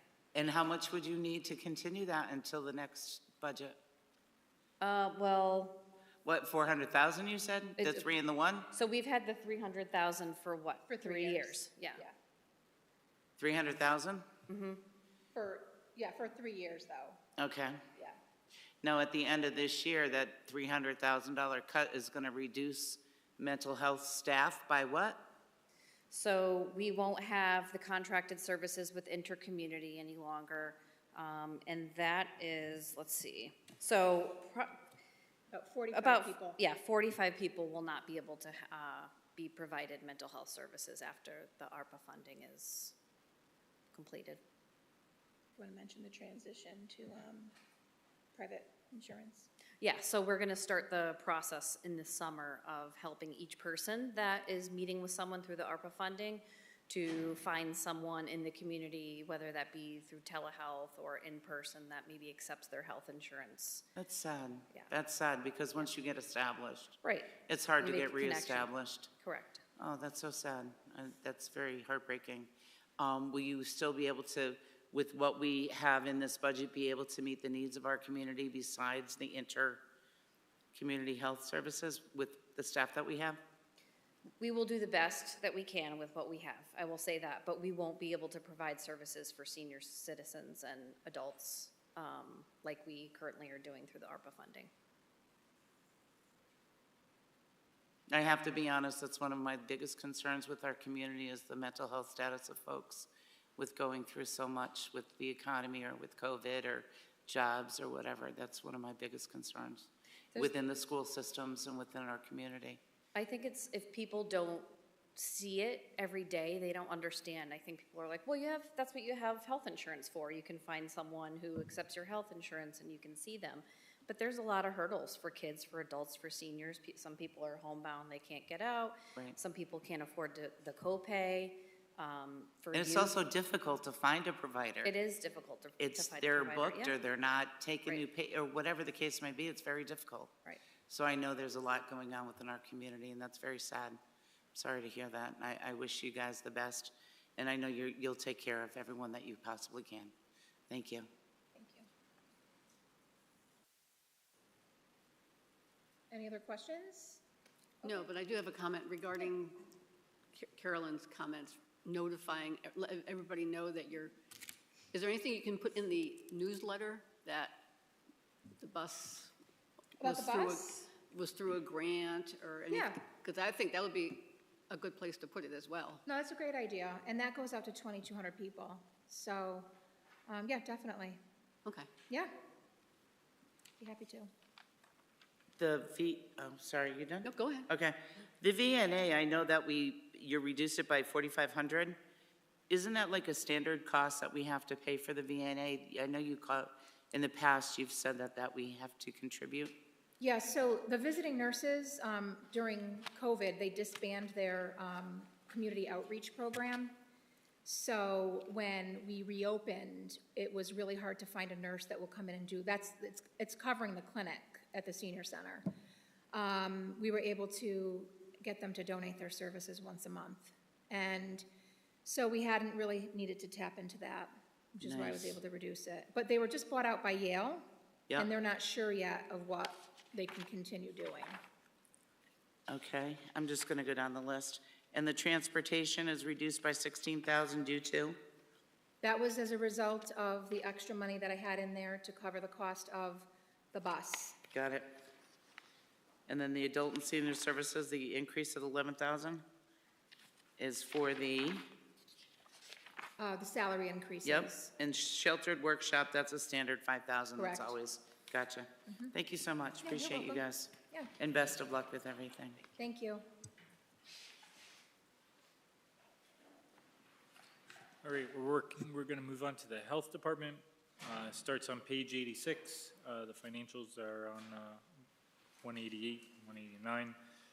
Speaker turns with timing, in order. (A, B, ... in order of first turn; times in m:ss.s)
0:00.3-0:03.8 A
0:04.8-0:05.8 B
0:06.2-0:08.7 A
0:07.8-0:08.1 B
0:08.7-0:12.0 B
0:10.9-0:12.1 C
0:13.4-0:14.2 A
0:14.5-0:14.8 B
0:15.3-0:17.2 C
0:17.4-0:17.8 A
0:18.8-0:25.2 A
0:26.1-0:34.8 B
0:35.5-0:36.6 C
0:35.9-0:42.9 B
0:43.9-0:44.4 B
0:45.6-0:47.5 C
0:48.3-0:49.5 C
0:49.8-1:03.8 B
1:04.0-1:09.1 A
1:07.0-1:09.6 B
1:09.8-1:19.8 A
1:20.7-1:23.4 A
1:24.4-1:34.7 B
1:38.1-1:52.8 A
1:53.1-2:13.1 B
2:12.7-2:14.9 A
2:14.8-2:17.0 B
2:15.8-2:20.3 A
2:20.9-2:24.0 A
2:24.5-2:30.1 A
2:30.7-2:31.1 A
2:31.5-2:31.9 C
2:36.1-2:37.2 C
2:37.8-2:39.6 D
2:40.3-2:44.1 D
2:44.9-2:47.6 D
2:48.6-2:49.3 D
2:50.0-2:56.0 D
2:50.0-2:50.8 C
2:52.7-2:53.0 C
2:56.0-2:59.7 C
3:00.3-3:01.2 C
3:03.8-3:04.3 C
3:05.6-3:12.0 A
3:07.2-3:07.7 D
3:12.7-3:19.7 A
3:20.2-3:27.0 C
3:27.6-3:35.6 C
3:36.3-3:41.4 C
3:42.0-3:47.6 C
3:44.8-3:45.4 A
3:48.2-3:51.4 C
3:52.7-3:58.2 A
3:59.0-4:04.4 C
4:04.5-4:05.0 A
4:06.3-4:09.4 A
4:10.6-4:11.7 A
4:13.2-4:14.7 C
4:14.2-4:22.6 A
4:17.4-4:17.7 C
4:19.8-4:21.1 C
4:22.8-4:23.2 C
4:28.0-4:34.8 E
4:35.6-4:37.1 E